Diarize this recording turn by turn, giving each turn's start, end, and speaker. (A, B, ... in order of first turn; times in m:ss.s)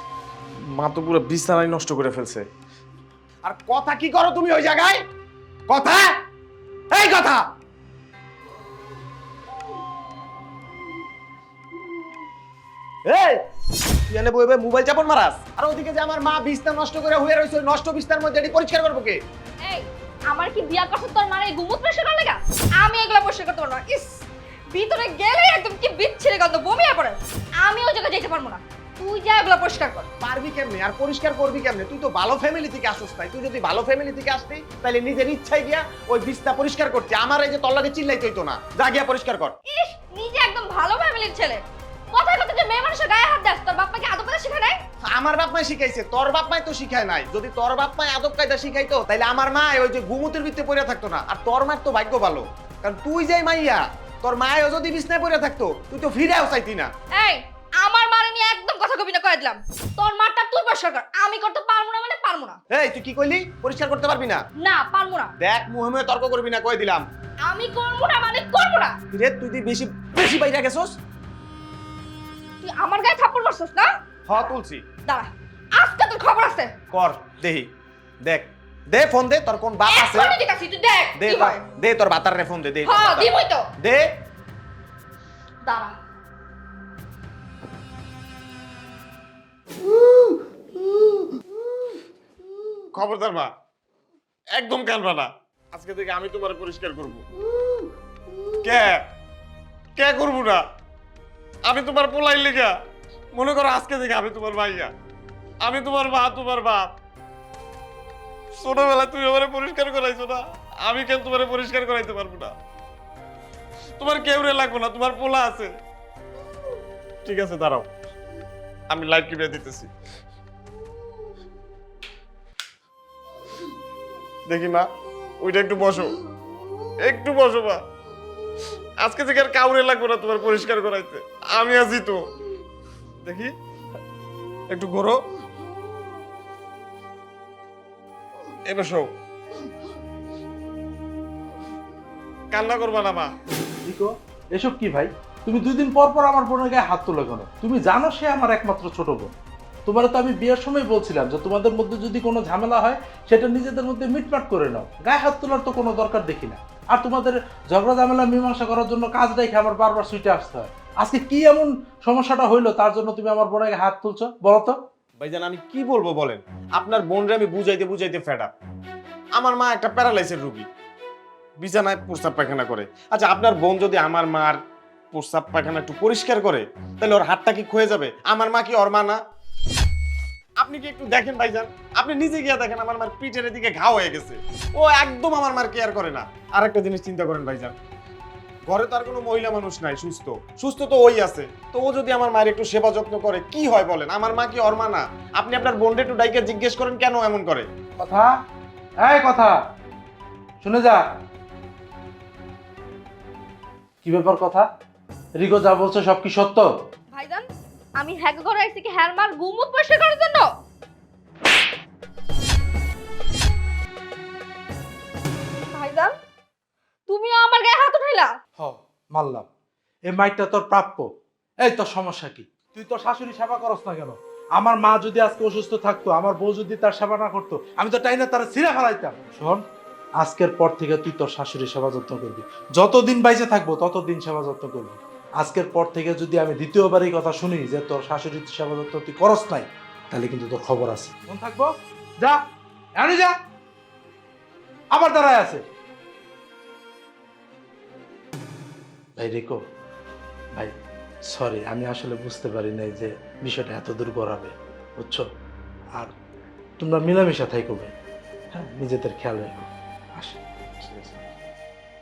0:00.6-0:02.4 A
0:03.4-0:05.0 A
0:05.7-0:06.1 A
0:06.9-0:07.4 A
0:13.1-0:13.4 A
0:14.1-0:19.2 A
0:19.6-0:24.2 B
0:24.7-0:30.1 B
0:30.2-0:39.6 A
0:39.7-0:41.6 B
0:42.1-0:44.8 B
0:45.1-0:56.9 A
0:57.1-1:02.6 B
1:02.7-1:04.4 A
1:04.6-1:05.3 B
1:05.4-1:07.0 A
1:07.5-1:09.0 B
1:09.1-1:11.0 A
1:12.6-1:13.9 B
1:14.3-1:14.8 A
1:15.1-1:16.7 B
1:16.9-1:17.7 A
1:18.2-1:20.4 A
1:19.9-1:21.6 B
1:21.2-1:24.0 A
1:22.8-1:23.7 B
1:25.6-1:26.0 B
1:32.9-1:33.5 A
1:34.6-1:37.2 A
1:38.6-1:39.0 A
1:40.0-1:40.6 A
1:41.7-1:42.7 A
1:43.3-1:44.9 A
1:45.6-1:46.9 A
1:48.6-1:52.5 A
1:54.0-1:55.7 A
1:57.2-1:57.9 A
1:58.9-1:59.9 A
2:04.5-2:04.9 A
2:05.4-2:06.1 A
2:07.0-2:07.8 A
2:09.0-2:12.2 A
2:13.2-2:13.5 A
2:14.7-2:15.2 A
2:18.7-2:19.1 A
2:22.5-2:23.3 A
2:23.8-2:29.3 C
2:29.9-2:44.8 C
2:45.2-2:48.5 A
2:49.4-2:50.7 A
2:51.6-2:54.6 A
2:55.1-2:59.2 A
3:00.6-3:07.7 A
3:08.7-3:17.7 A
3:18.0-3:18.3 C
3:19.0-3:19.6 C
3:20.6-3:21.0 C
3:24.0-3:24.7 C
3:25.4-3:26.7 C
3:27.1-3:27.5 B
3:28.0-3:30.5 B
3:35.7-3:36.1 B
3:37.1-3:38.3 B
3:38.6-3:39.5 C
3:40.1-3:41.1 C
3:41.6-3:49.6 C
3:50.2-4:02.4 C
4:03.0-4:03.3 C
4:04.9-4:05.6 C
4:09.2-4:09.6 C
4:11.3-4:15.3 C
4:16.8-4:17.9 C
4:18.5-4:20.4 C
4:20.8-4:21.2 A